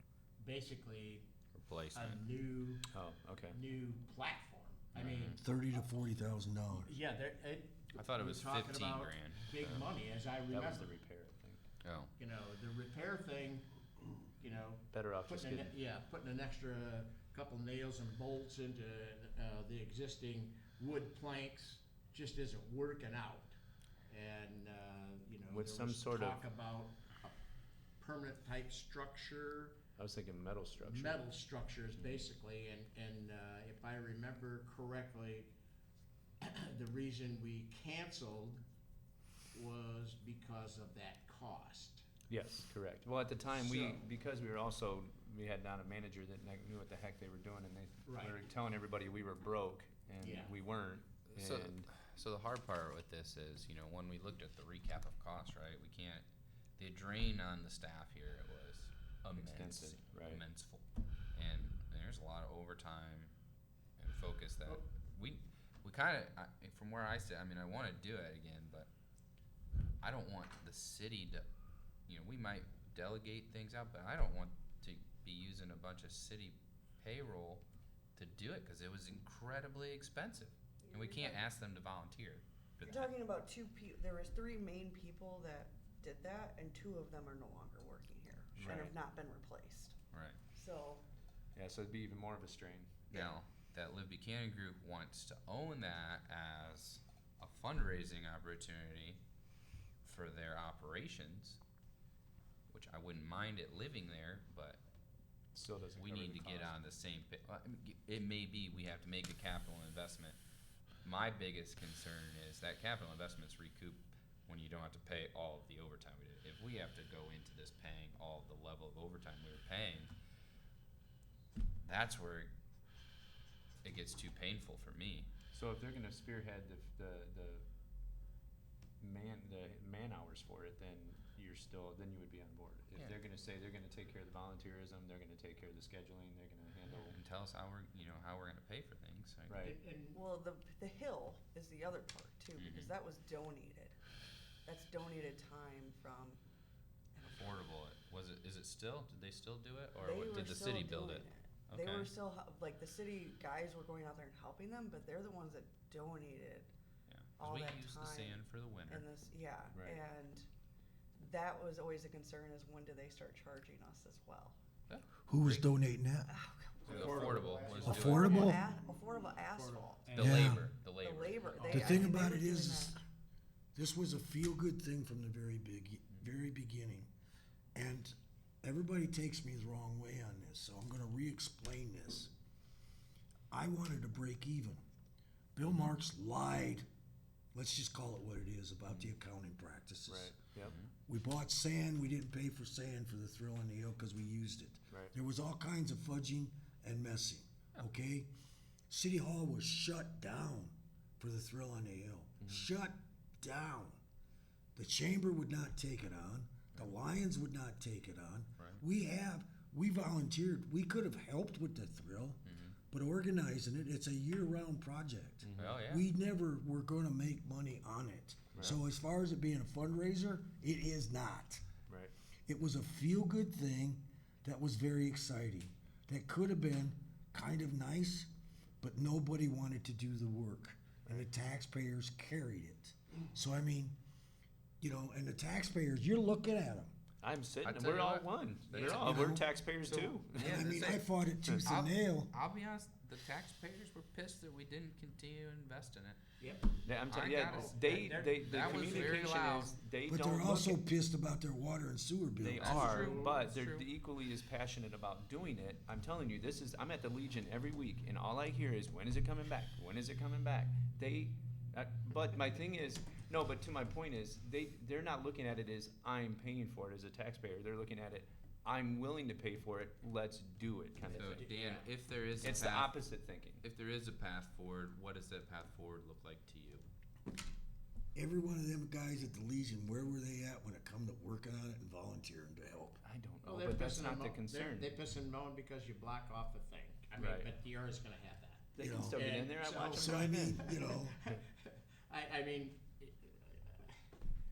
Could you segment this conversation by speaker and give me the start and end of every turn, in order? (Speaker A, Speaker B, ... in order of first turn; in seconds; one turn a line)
Speaker A: 0.4-1.3
Speaker B: 1.5-2.2
Speaker A: 1.9-2.9
Speaker C: 2.9-3.6
Speaker A: 3.5-5.4
Speaker B: 5.0-5.4
Speaker C: 5.0-5.3
Speaker D: 5.4-7.0
Speaker A: 6.8-10.9
Speaker B: 7.9-9.9
Speaker C: 10.5-11.6
Speaker B: 11.8-12.1
Speaker A: 12.2-13.7
Speaker A: 14.4-23.5
Speaker C: 14.9-15.7
Speaker A: 24.1-27.4
Speaker C: 25.5-26.4
Speaker A: 28.0-29.8
Speaker C: 30.0-31.2
Speaker A: 30.8-35.5
Speaker A: 36.4-38.6
Speaker A: 39.5-42.1
Speaker C: 42.3-51.9
Speaker A: 43.5-44.0
Speaker A: 48.0-48.4
Speaker A: 50.2-50.5
Speaker B: 51.3-56.2
Speaker B: 56.8-63.3
Speaker C: 59.4-60.4
Speaker B: 64.0-68.9
Speaker B: 70.0-71.5
Speaker B: 72.1-77.6
Speaker B: 78.2-83.1
Speaker E: 80.8-81.4
Speaker E: 82.8-90.0
Speaker C: 88.5-89.0
Speaker B: 90.1-90.4
Speaker E: 90.5-91.0
Speaker C: 91.5-92.9
Speaker B: 93.1-99.2
Speaker E: 93.1-93.4
Speaker B: 100.0-101.6
Speaker B: 102.7-104.8
Speaker C: 105.5-106.8
Speaker B: 106.0-110.4
Speaker B: 111.0-120.1
Speaker B: 121.8-122.5
Speaker B: 123.8-125.3
Speaker C: 125.5-127.6
Speaker C: 129.0-137.2
Speaker B: 137.0-139.6
Speaker C: 139.5-139.8
Speaker A: 139.6-140.2
Speaker E: 140.1-143.9
Speaker B: 142.6-142.9
Speaker E: 144.7-146.4
Speaker E: 147.2-147.7
Speaker B: 147.3-152.1
Speaker E: 150.0-156.7
Speaker B: 157.1-159.1
Speaker E: 157.4-160.5
Speaker C: 159.7-160.0
Speaker E: 161.2-164.6
Speaker B: 164.9-165.7
Speaker D: 165.3-166.3
Speaker E: 166.3-167.1
Speaker B: 166.8-168.5
Speaker A: 166.8-170.6
Speaker D: 167.8-168.6
Speaker E: 167.9-170.2
Speaker B: 170.1-171.5
Speaker D: 170.2-170.7
Speaker E: 170.9-173.0
Speaker A: 171.4-172.1
Speaker D: 171.7-173.0
Speaker D: 173.7-177.1
Speaker D: 177.7-182.3
Speaker D: 183.5-184.8
Speaker D: 185.6-186.8
Speaker D: 187.5-190.3
Speaker C: 190.1-190.8
Speaker D: 191.1-198.3
Speaker D: 198.9-204.0
Speaker C: 202.4-202.7
Speaker D: 204.7-221.6
Speaker B: 212.4-212.8
Speaker C: 215.4-215.8
Speaker B: 215.6-216.0
Speaker C: 218.5-218.8
Speaker C: 221.9-222.1
Speaker D: 222.5-228.3
Speaker D: 228.8-233.9
Speaker D: 234.8-236.9
Speaker C: 237.2-241.7
Speaker B: 237.6-241.0
Speaker D: 239.0-239.4
Speaker D: 240.4-242.3
Speaker B: 241.6-246.2
Speaker A: 246.4-246.8
Speaker C: 246.8-250.8
Speaker B: 247.0-249.7
Speaker A: 247.4-249.5
Speaker D: 250.1-252.8
Speaker C: 252.4-271.5
Speaker B: 252.6-253.8
Speaker A: 252.7-253.5
Speaker B: 271.1-272.9
Speaker A: 271.1-271.9
Speaker C: 272.4-273.6
Speaker B: 273.6-276.8
Speaker D: 278.1-283.0
Speaker C: 283.0-284.9
Speaker A: 283.4-293.9
Speaker C: 287.2-287.5
Speaker C: 288.7-290.6
Speaker D: 288.8-289.2
Speaker D: 289.9-291.1